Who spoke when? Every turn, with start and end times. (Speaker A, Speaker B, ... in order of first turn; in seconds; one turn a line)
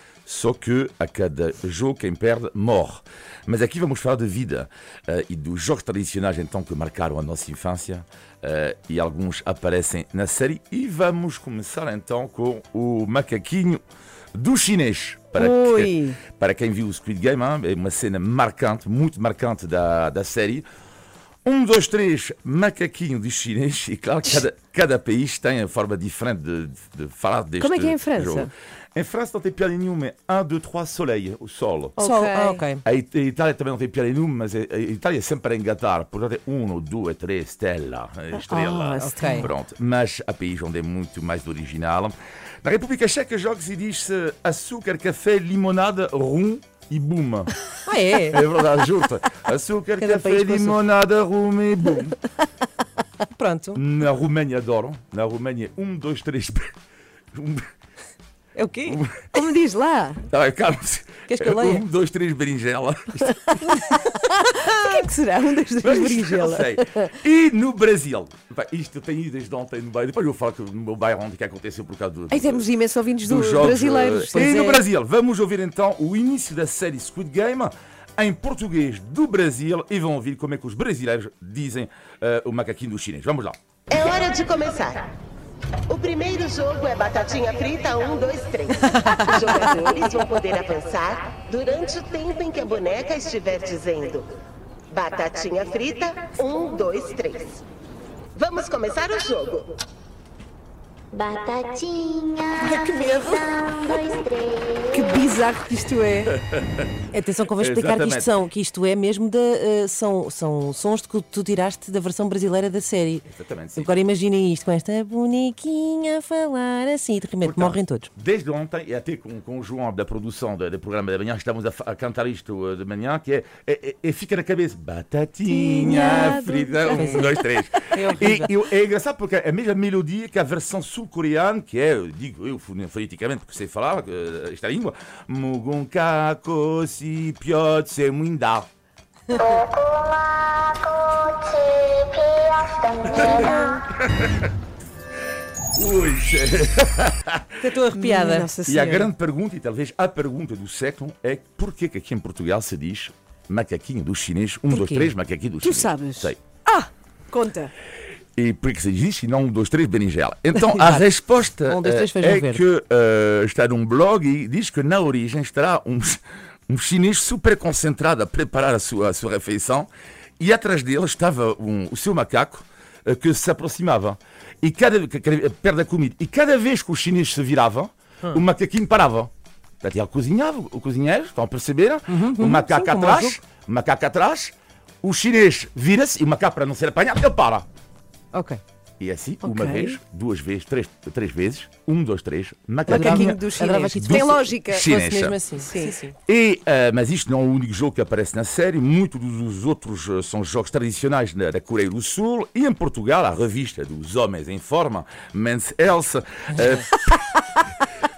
Speaker A: 0.2-13.8
Speaker A: 14.3-20.6
Speaker B: 15.4-16.2
Speaker A: 21.4-32.0
Speaker B: 27.6-28.5
Speaker B: 32.0-32.6
Speaker C: 32.0-32.8
Speaker A: 32.8-47.5
Speaker B: 38.3-39.5
Speaker C: 39.0-39.5
Speaker C: 47.8-48.4
Speaker A: 48.2-52.2
Speaker B: 50.0-50.8
Speaker C: 53.3-53.8
Speaker A: 53.7-56.7
Speaker A: 57.3-57.6
Speaker C: 58.5-59.0
Speaker A: 58.9-59.3
Speaker B: 59.3-60.2
Speaker A: 60.3-63.4
Speaker C: 61.3-61.8
Speaker B: 63.3-67.1
Speaker A: 65.8-72.7
Speaker B: 72.3-74.8
Speaker A: 73.3-83.6
Speaker D: 83.9-85.1
Speaker D: 85.9-94.3
Speaker B: 89.2-89.6
Speaker D: 94.9-97.6
Speaker D: 98.3-99.7
Speaker E: 101.1-105.0
Speaker A: 102.6-103.5
Speaker B: 104.9-106.4
Speaker A: 106.4-106.8
Speaker C: 107.1-118.1
Speaker A: 107.5-108.3
Speaker A: 113.3-113.9
Speaker A: 117.4-138.7
Speaker B: 125.5-127.4
Speaker C: 126.9-128.5
Speaker E: 139.8-140.1
Speaker E: 141.2-143.0
Speaker A: 143.0-143.5
Speaker C: 143.1-143.8
Speaker B: 143.1-143.6
Speaker A: 144.0-144.4
Speaker A: 145.7-147.7
Speaker C: 147.6-148.5
Speaker B: 147.9-149.1
Speaker A: 148.7-156.4
Speaker C: 154.7-155.1
Speaker B: 155.6-157.7
Speaker A: 158.3-169.9
Speaker C: 160.7-161.1
Speaker C: 161.6-162.6
Speaker A: 170.4-179.3
Speaker A: 179.8-187.7
Speaker C: 182.1-183.4
Speaker C: 188.3-188.6
Speaker A: 189.0-193.5
Speaker B: 189.4-190.0
Speaker B: 192.9-194.9
Speaker C: 192.9-196.2
Speaker A: 194.0-195.4
Speaker B: 195.6-195.9
Speaker A: 196.2-207.1